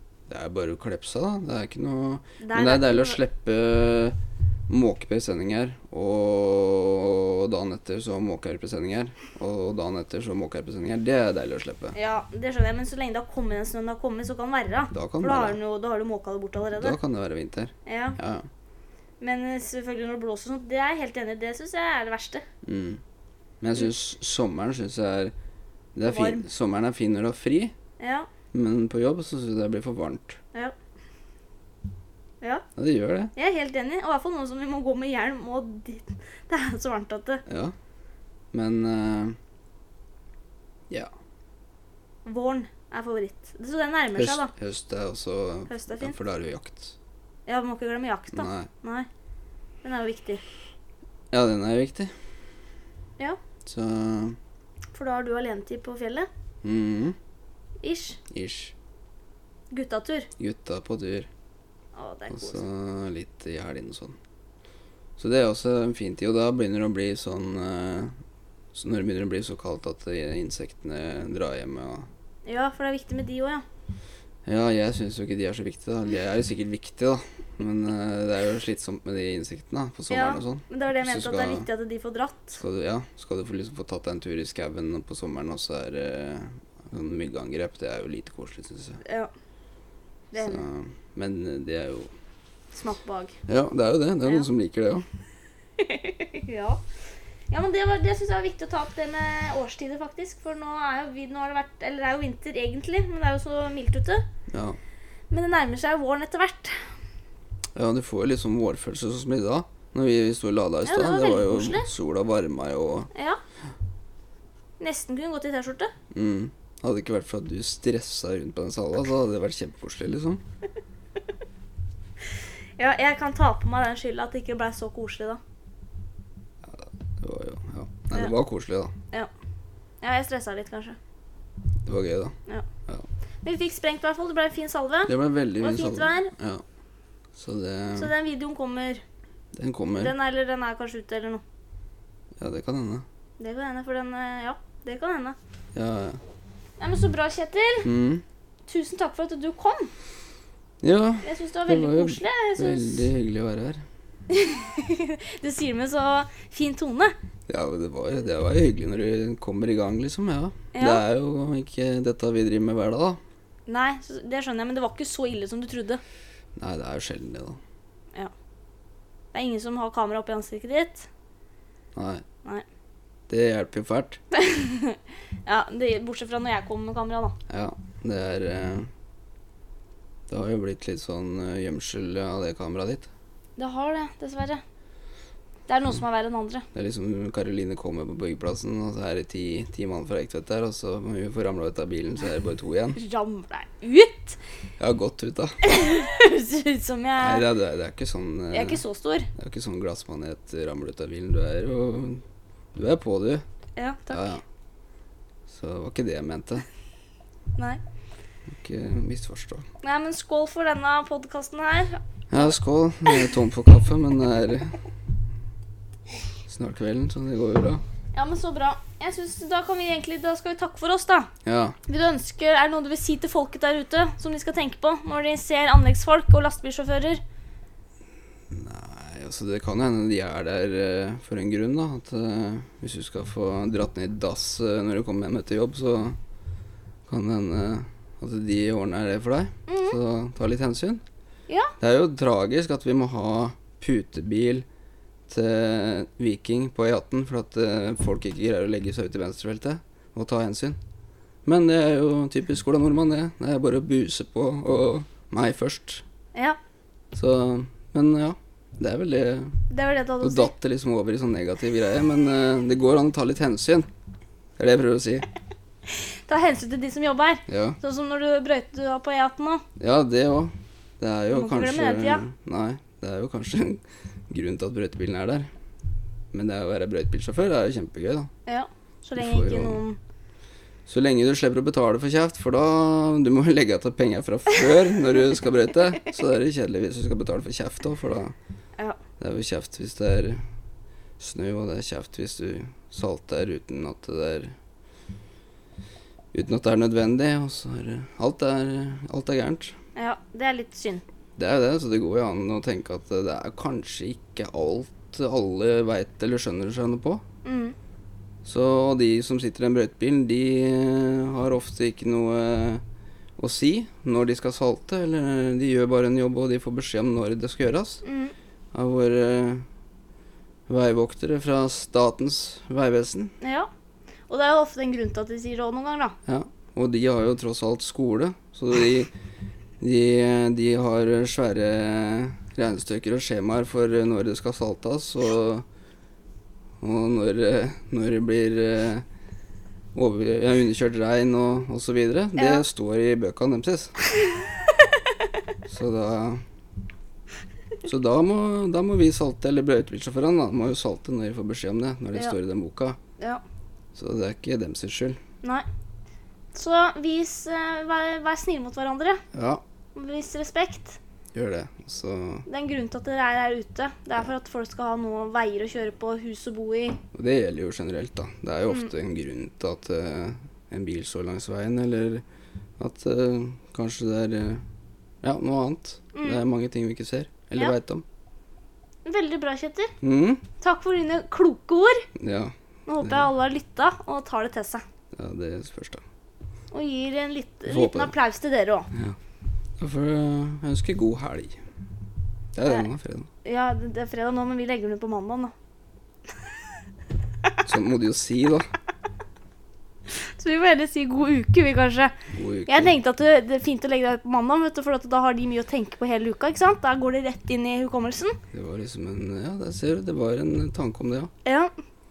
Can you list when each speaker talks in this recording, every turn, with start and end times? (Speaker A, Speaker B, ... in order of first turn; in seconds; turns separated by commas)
Speaker A: 0.3-4.2, Speaker B: 2.4-3.2, Speaker A: 4.7-11.9, Speaker B: 11.9-17.0, Speaker A: 14.9-15.6, Speaker A: 16.8-18.5, Speaker B: 17.9-18.2, Speaker B: 19.2-22.4, Speaker A: 22.6-23.0, Speaker A: 23.6-25.3, Speaker A: 25.9-27.8, Speaker B: 26.1-26.5, Speaker B: 28.0-28.3, Speaker A: 28.5-30.4, Speaker A: 32.8-33.3, Speaker B: 33.4-37.4, Speaker A: 37.5-37.7, Speaker A: 38.5-39.4, Speaker B: 42.3-44.5, Speaker A: 44.1-47.0, Speaker B: 45.7-46.2, Speaker B: 47.5-49.1, Speaker A: 48.3-48.7, Speaker B: 49.8-50.4, Speaker A: 51.3-52.1, Speaker A: 53.6-54.4, Speaker B: 54.9-56.3, Speaker A: 56.6-57.2, Speaker B: 57.8-58.2, Speaker A: 58.3-58.7, Speaker B: 59.7-60.3, Speaker A: 60.4-61.3, Speaker B: 62.0-62.6, Speaker A: 62.3-64.2, Speaker A: 65.2-68.1, Speaker A: 68.7-72.1, Speaker B: 72.5-73.7, Speaker A: 74.5-81.7, Speaker B: 80.1-82.6, Speaker A: 82.6-89.0, Speaker B: 89.0-89.3, Speaker B: 90.3-90.6, Speaker A: 90.4-92.1, Speaker B: 92.7-93.4, Speaker A: 93.5-95.0, Speaker B: 95.8-96.8, Speaker B: 97.5-104.3, Speaker A: 104.5-104.8, Speaker B: 105.3-106.9, Speaker A: 107.8-113.1, Speaker B: 110.9-111.9, Speaker B: 113.1-113.4, Speaker B: 114.8-115.9, Speaker A: 116.1-120.4, Speaker B: 122.8-125.4, Speaker A: 126.6-128.9, Speaker B: 130.0-131.0, Speaker A: 131.8-132.3, Speaker B: 133.4-136.3, Speaker A: 135.1-136.6, Speaker A: 137.4-138.1, Speaker B: 137.9-139.0, Speaker A: 139.5-140.1, Speaker B: 140.0-141.4, Speaker A: 142.4-143.1, Speaker B: 143.4-145.4, Speaker A: 145.7-146.2, Speaker B: 146.8-147.9, Speaker A: 147.8-148.2, Speaker B: 148.7-149.9, Speaker A: 150.8-153.8, Speaker B: 151.2-153.1, Speaker B: 154.3-157.2, Speaker A: 157.5-163.2, Speaker B: 160.7-161.0, Speaker B: 163.7-166.0, Speaker A: 166.6-167.6, Speaker B: 169.3-171.1, Speaker A: 171.9-172.2, Speaker A: 173.3-174.2, Speaker B: 174.3-177.4, Speaker A: 177.5-178.9, Speaker A: 180.3-183.1, Speaker B: 183.6-184.6, Speaker B: 185.7-186.7, Speaker A: 186.7-193.0, Speaker B: 192.9-194.4, Speaker A: 194.8-195.6, Speaker B: 195.6-197.5, Speaker A: 197.2-198.8, Speaker B: 198.5-199.3, Speaker A: 199.3-202.2, Speaker A: 202.7-203.4, Speaker B: 203.8-204.3, Speaker A: 204.1-204.4, Speaker A: 205.5-206.7, Speaker A: 208.5-209.7, Speaker B: 209.8-212.0, Speaker A: 212.3-214.8, Speaker A: 216.5-217.8, Speaker B: 218.2-221.3, Speaker A: 221.4-221.8, Speaker B: 221.9-227.2, Speaker A: 228.5-236.2, Speaker A: 237.1-241.0, Speaker B: 239.7-240.0, Speaker A: 241.8-244.7, Speaker A: 245.3-250.8, Speaker A: 251.4-256.0, Speaker A: 257.1-259.6, Speaker B: 259.7-260.5, Speaker A: 260.2-263.9, Speaker A: 264.6-265.3, Speaker B: 265.9-269.6, Speaker A: 267.5-267.8, Speaker A: 269.8-275.5, Speaker B: 271.3-272.2, Speaker A: 276.3-278.3, Speaker B: 278.5-280.0, Speaker A: 279.2-279.8, Speaker A: 280.9-288.3, Speaker A: 289.2-290.4, Speaker A: 291.2-294.5, Speaker A: 296.3-299.8, Speaker B: 300.0-301.0, Speaker A: 301.4-307.2, Speaker B: 307.4-307.8, Speaker A: 308.4-312.8, Speaker A: 313.4-318.0, Speaker B: 318.0-318.3, Speaker A: 318.7-319.6, Speaker A: 320.7-323.3, Speaker B: 323.4-323.7, Speaker B: 324.3-326.2, Speaker A: 326.2-329.1, Speaker A: 329.8-335.6, Speaker A: 336.8-339.1, Speaker A: 339.9-344.0, Speaker B: 342.4-342.6, Speaker A: 345.7-346.4, Speaker A: 347.8-353.0, Speaker A: 353.9-355.2, Speaker B: 356.5-359.2, Speaker A: 359.3-359.6, Speaker B: 359.9-361.0, Speaker A: 361.3-362.5, Speaker B: 362.5-367.0, Speaker A: 367.1-372.2, Speaker A: 372.8-374.6, Speaker A: 375.2-378.1, Speaker B: 376.1-376.4, Speaker B: 379.1-379.9, Speaker A: 380.0-380.4, Speaker B: 380.6-382.1, Speaker A: 382.2-383.3, Speaker B: 382.9-384.9, Speaker A: 385.1-386.0, Speaker B: 386.7-388.9, Speaker A: 387.7-388.1, Speaker A: 389.8-391.6, Speaker A: 392.6-393.3, Speaker B: 393.4-395.5, Speaker A: 397.6-398.7, Speaker B: 400.1-402.1, Speaker A: 402.3-402.9, Speaker B: 402.7-408.4, Speaker A: 408.5-411.3, Speaker B: 411.4-411.7